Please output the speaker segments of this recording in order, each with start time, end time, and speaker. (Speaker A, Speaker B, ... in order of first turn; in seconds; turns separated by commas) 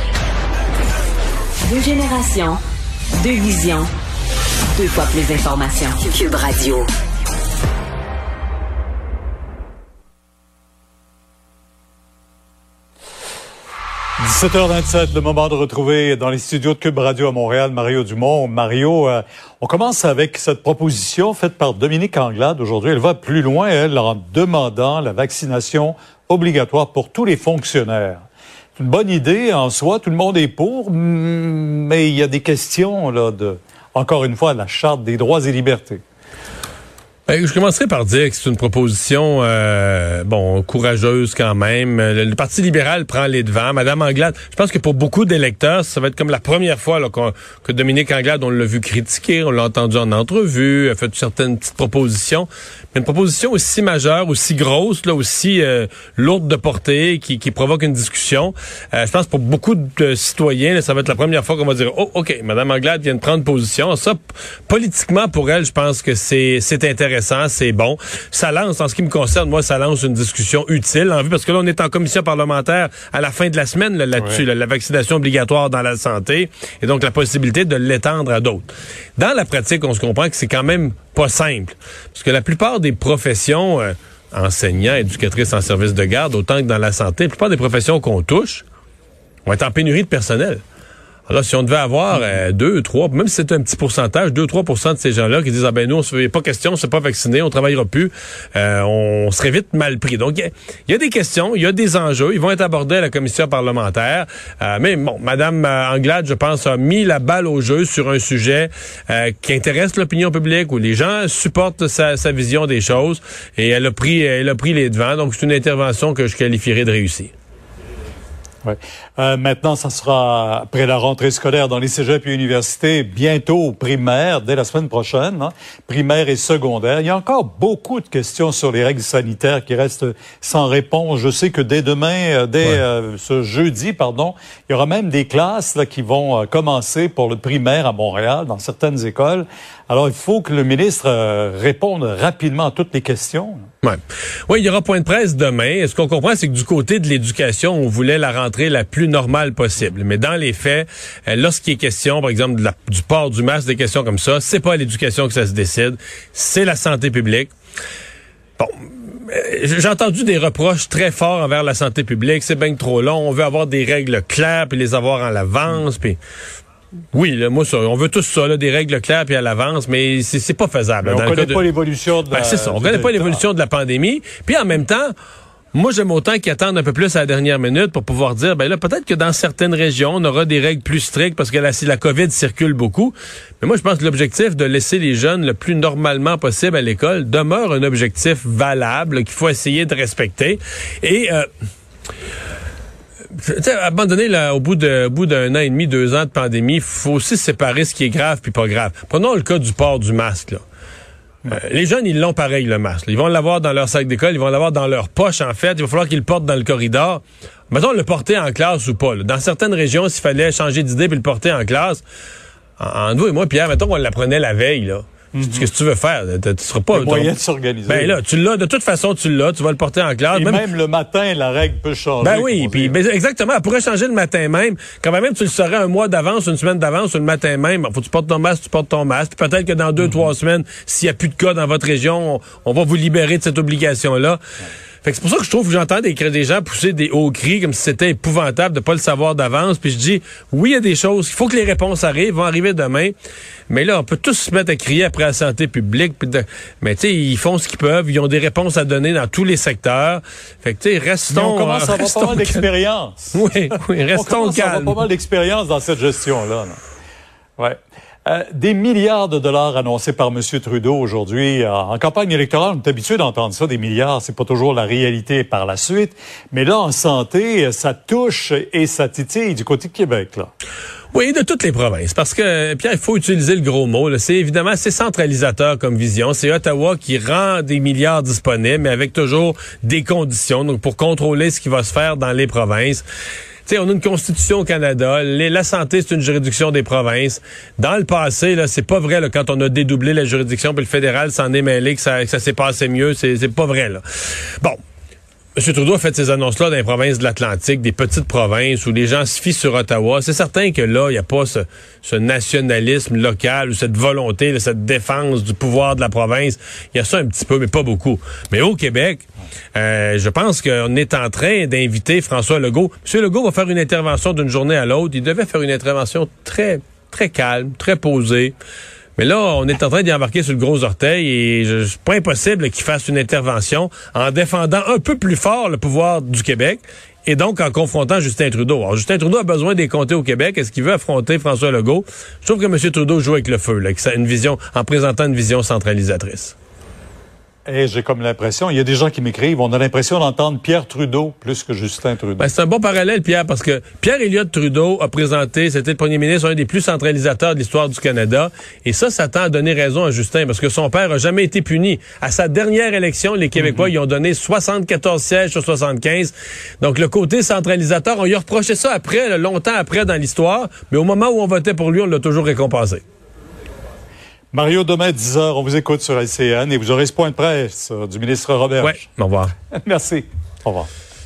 Speaker A: 1.6-2.6, Speaker A: 3.2-3.9, Speaker A: 4.7-6.9, Speaker B: 14.2-28.2, Speaker B: 28.8-36.0, Speaker C: 37.3-88.6, Speaker B: 74.2-74.4, Speaker C: 89.5-90.6, Speaker C: 91.3-117.3, Speaker B: 118.6-143.7, Speaker C: 143.8-157.5, Speaker C: 158.6-166.2, Speaker C: 167.1-171.6, Speaker B: 171.0-173.4, Speaker C: 172.3-175.1, Speaker C: 175.7-191.5, Speaker C: 193.4-200.6, Speaker C: 201.5-212.0, Speaker C: 212.8-217.3, Speaker B: 215.3-215.7, Speaker B: 216.9-218.2, Speaker C: 217.9-220.6, Speaker B: 220.3-222.9, Speaker C: 222.2-234.4, Speaker C: 235.0-243.1, Speaker C: 243.7-252.7, Speaker B: 251.3-253.4, Speaker C: 253.3-255.0, Speaker B: 254.1-256.8, Speaker B: 257.6-270.5, Speaker C: 271.1-283.1, Speaker C: 283.6-294.0, Speaker C: 295.6-318.5, Speaker C: 319.2-336.5, Speaker B: 337.7-342.4, Speaker C: 342.4-363.0, Speaker B: 353.6-353.9, Speaker B: 364.5-369.1, Speaker C: 368.8-369.5, Speaker B: 369.7-370.9